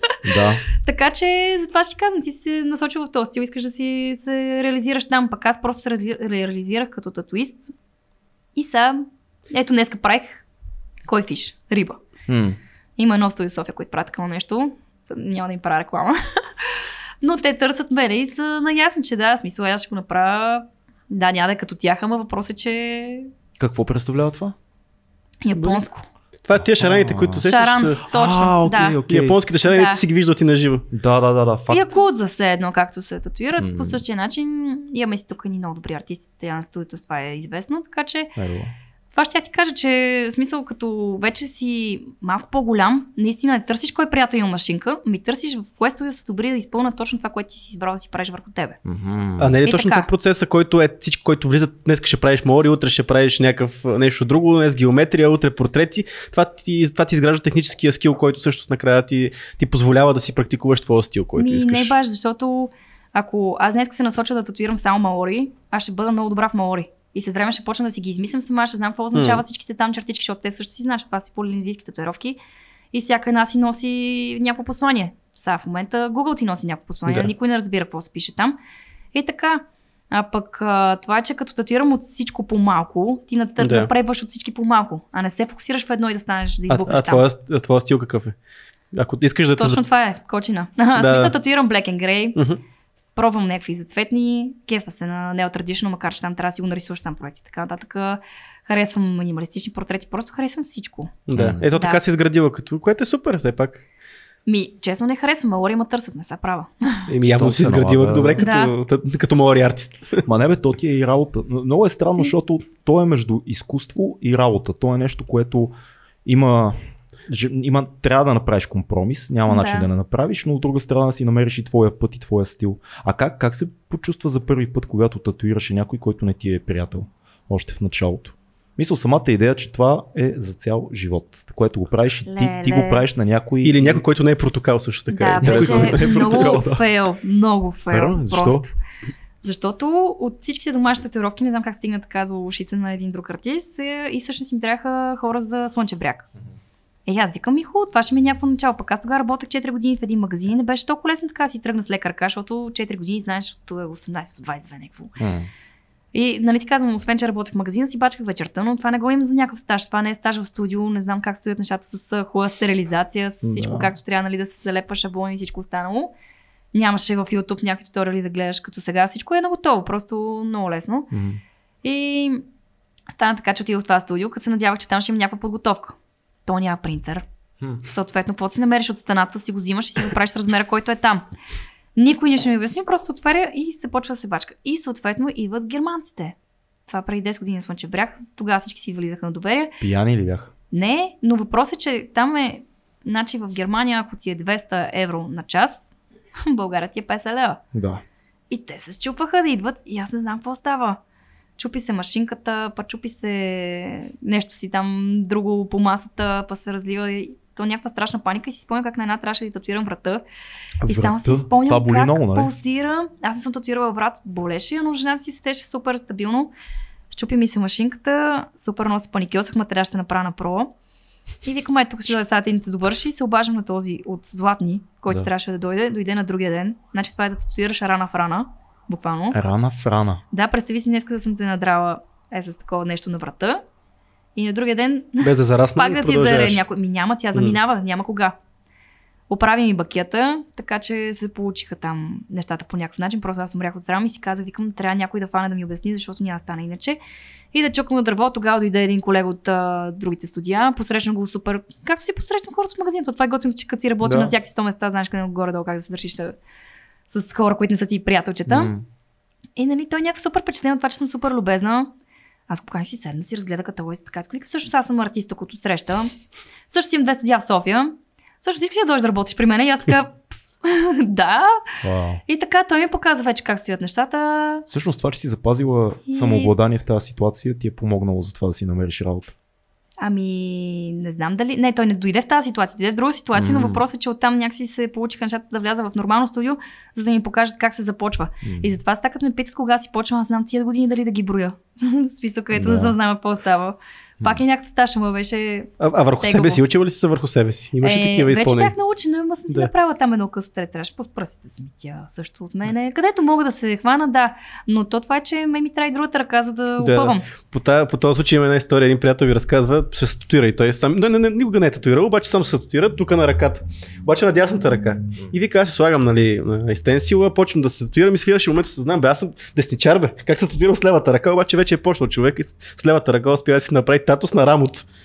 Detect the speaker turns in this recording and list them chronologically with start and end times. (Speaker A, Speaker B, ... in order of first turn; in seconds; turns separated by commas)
Speaker A: 0.2-0.6, Speaker B: 0.8-7.7, Speaker B: 8.6-10.4, Speaker B: 11.1-12.0, Speaker A: 12.3-12.6, Speaker B: 13.0-16.7, Speaker B: 17.2-23.3, Speaker A: 23.6-24.5, Speaker B: 25.4-26.0, Speaker C: 25.5-25.8, Speaker C: 26.4-28.0, Speaker A: 26.6-27.4, Speaker B: 27.4-29.0, Speaker A: 28.0-29.4, Speaker C: 29.1-30.8, Speaker B: 29.6-30.0, Speaker A: 30.9-32.0, Speaker B: 31.7-38.4, Speaker A: 33.6-34.0, Speaker A: 38.4-38.7, Speaker B: 39.1-48.8, Speaker A: 48.8-49.6, Speaker C: 49.4-61.9, Speaker B: 49.6-50.1, Speaker B: 61.4-72.4, Speaker C: 69.1-69.4, Speaker B: 72.9-78.5, Speaker C: 77.0-77.3, Speaker B: 79.1-87.2, Speaker C: 83.6-83.9, Speaker C: 86.7-88.3, Speaker C: 88.9-89.8, Speaker B: 89.6-92.4, Speaker C: 91.0-91.3, Speaker C: 92.3-92.6, Speaker B: 93.1-101.2, Speaker C: 101.3-103.8, Speaker A: 101.3-101.6, Speaker B: 101.7-102.0, Speaker B: 104.5-107.1, Speaker C: 107.1-110.2, Speaker A: 107.2-108.4, Speaker B: 108.4-108.7, Speaker A: 110.2-115.7, Speaker A: 116.2-134.0, Speaker B: 119.5-119.9, Speaker B: 132.2-133.0, Speaker C: 133.6-136.6, Speaker B: 135.1-138.7, Speaker A: 135.4-136.8, Speaker A: 137.9-138.7, Speaker B: 139.4-146.3, Speaker B: 147.1-155.2, Speaker A: 155.2-155.5, Speaker B: 156.1-166.1, Speaker A: 163.4-163.9, Speaker B: 166.7-171.1, Speaker A: 171.1-171.4, Speaker B: 171.8-172.4, Speaker B: 173.1-177.2, Speaker B: 177.8-181.3, Speaker B: 181.9-186.3, Speaker B: 186.9-189.8, Speaker A: 189.8-190.5, Speaker B: 190.7-197.6, Speaker A: 197.7-198.0, Speaker B: 198.5-201.0, Speaker B: 201.6-210.2, Speaker A: 210.8-212.5, Speaker B: 210.9-216.5, Speaker B: 217.1-220.7, Speaker B: 221.4-229.4, Speaker A: 229.3-230.2, Speaker B: 230.3-233.6, Speaker B: 234.3-238.3, Speaker C: 235.2-236.6, Speaker B: 239.3-247.0, Speaker B: 247.5-256.4, Speaker A: 254.0-254.3, Speaker B: 257.1-258.7, Speaker A: 258.5-258.8, Speaker B: 259.6-261.9, Speaker B: 262.5-266.1, Speaker B: 266.7-271.6, Speaker A: 271.8-272.2, Speaker B: 272.3-274.7, Speaker A: 274.7-279.3, Speaker B: 276.1-276.5, Speaker B: 280.0-296.6, Speaker A: 283.3-283.8, Speaker A: 288.4-288.7, Speaker A: 292.5-292.9, Speaker C: 295.8-298.7, Speaker B: 297.8-307.2, Speaker C: 306.8-324.9